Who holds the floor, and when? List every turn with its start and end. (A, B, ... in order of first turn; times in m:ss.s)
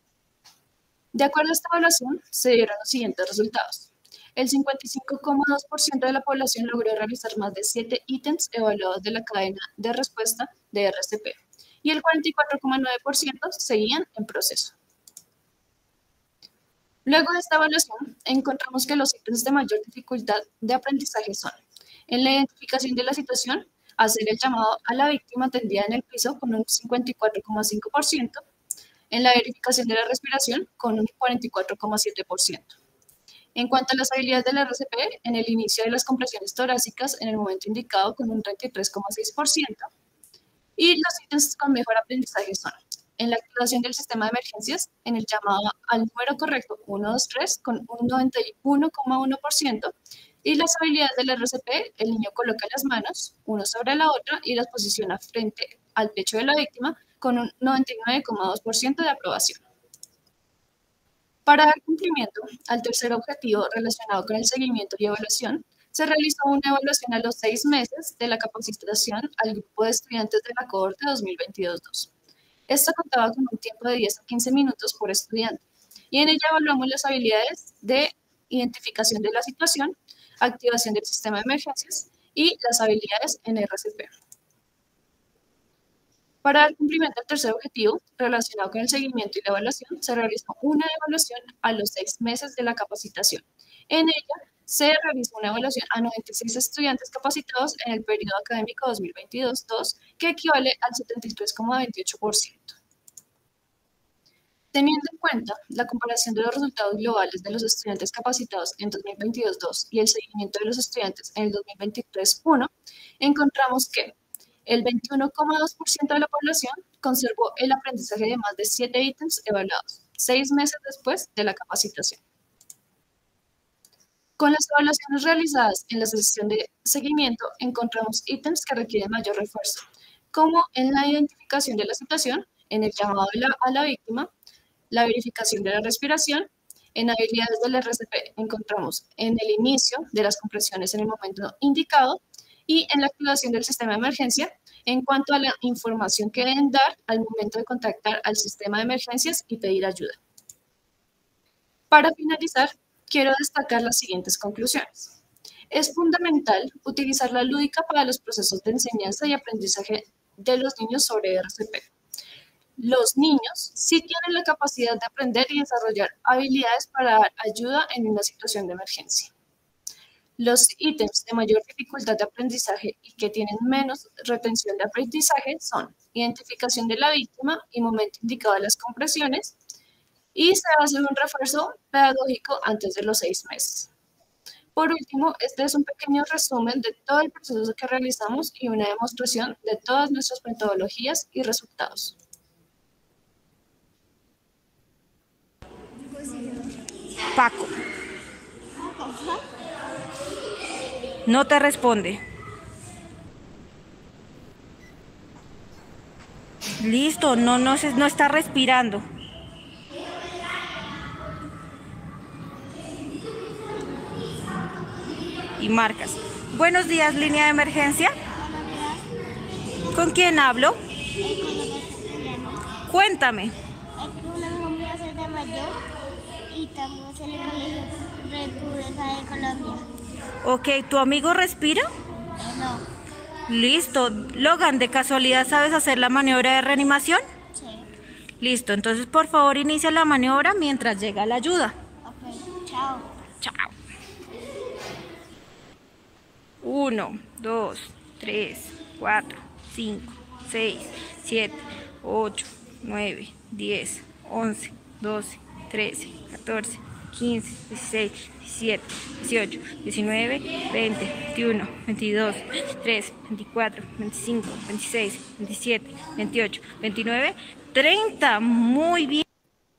0:01.1-0:14.7 A
0:17.0-0:21.6 A
0:22.1-0:28.4 A
0:29.1-0:32.7 A
0:33.6-0:39.9 A
0:40.8-0:59.6 A
1:01.5-1:12.1 A
1:12.7-1:24.1 A
1:26.4-1:42.8 A
1:44.7-2:02.2 A
2:04.4-2:14.3 A
2:14.9-2:30.2 A
2:31.9-2:35.1 A
2:35.7-2:41.9 A
2:42.8-2:49.3 A
2:50.4-2:59.6 A
3:00.3-3:03.9 A
3:04.8-3:12.2 A
3:16.3-3:16.6 B
3:17.3-3:17.7 C
3:18.9-3:19.4 B
3:21.3-3:22.2 C
3:26.8-3:29.0 C
3:35.6-3:38.2 C
3:38.3-3:39.0 B
3:39.9-3:40.8 C
3:41.2-3:42.7 B
3:42.8-3:43.5 C
3:44.0-3:45.8 B
3:46.5-3:49.9 B
3:50.4-3:51.9 C
3:52.4-3:52.9 B
3:53.5-3:57.2 C
3:57.6-3:57.9 B
3:58.4-4:01.8 C
4:02.0-4:03.1 B
4:03.4-4:03.7 C
4:06.6-4:29.2 C